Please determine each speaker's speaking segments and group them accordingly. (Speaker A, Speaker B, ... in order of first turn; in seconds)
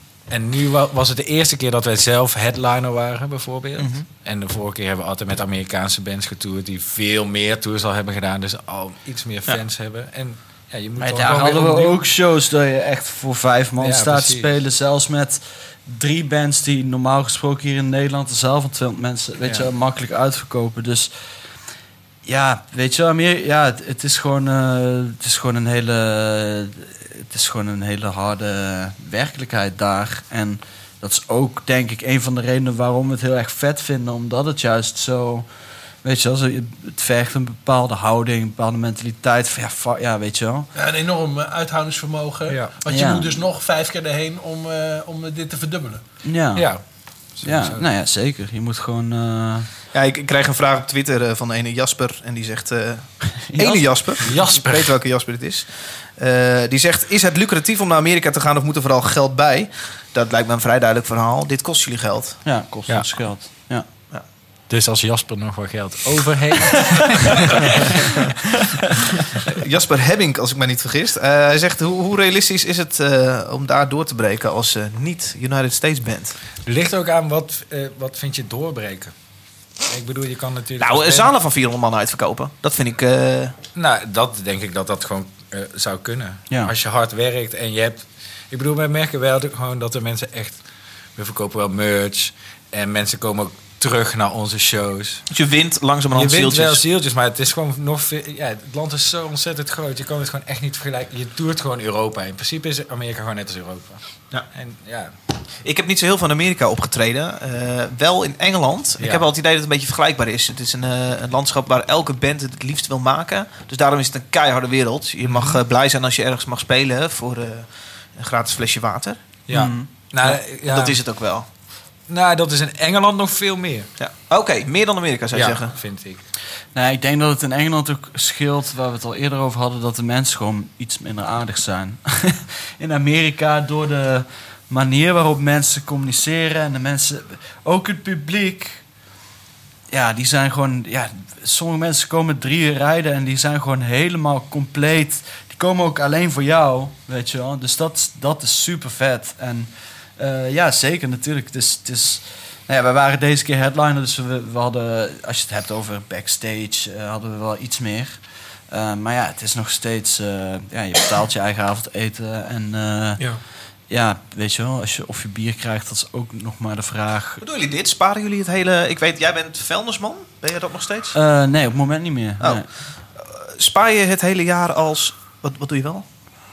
Speaker A: 0.3-12.1, 13.8-14.5, 19.4-19.7, 46.5-47.8, 54.2-55.0, 64.7-68.2, 76.6-79.1, 79.8-81.3, 83.8-90.6, 91.2-95.2, 96.1-105.1, 109.0-109.2, 115.2-115.6, 119.5-121.0, 122.1-123.9, 125.3-126.2
Speaker B: 3.8-4.0, 49.9-62.4, 69.5-76.4, 80.8-83.5, 95.3-96.8, 105.6-119.2, 120.2-121.5, 124.0-125.7, 167.4-171.2, 172.4-176.0
Speaker C: 11.0-21.1, 22.2-35.5, 36.0-40.7, 42.9-43.3, 46.2-49.7, 53.4-54.2, 62.4-63.9, 119.5-119.9, 126.7-138.8, 139.9-167.4, 171.1-172.7
Speaker D: 40.7-46.0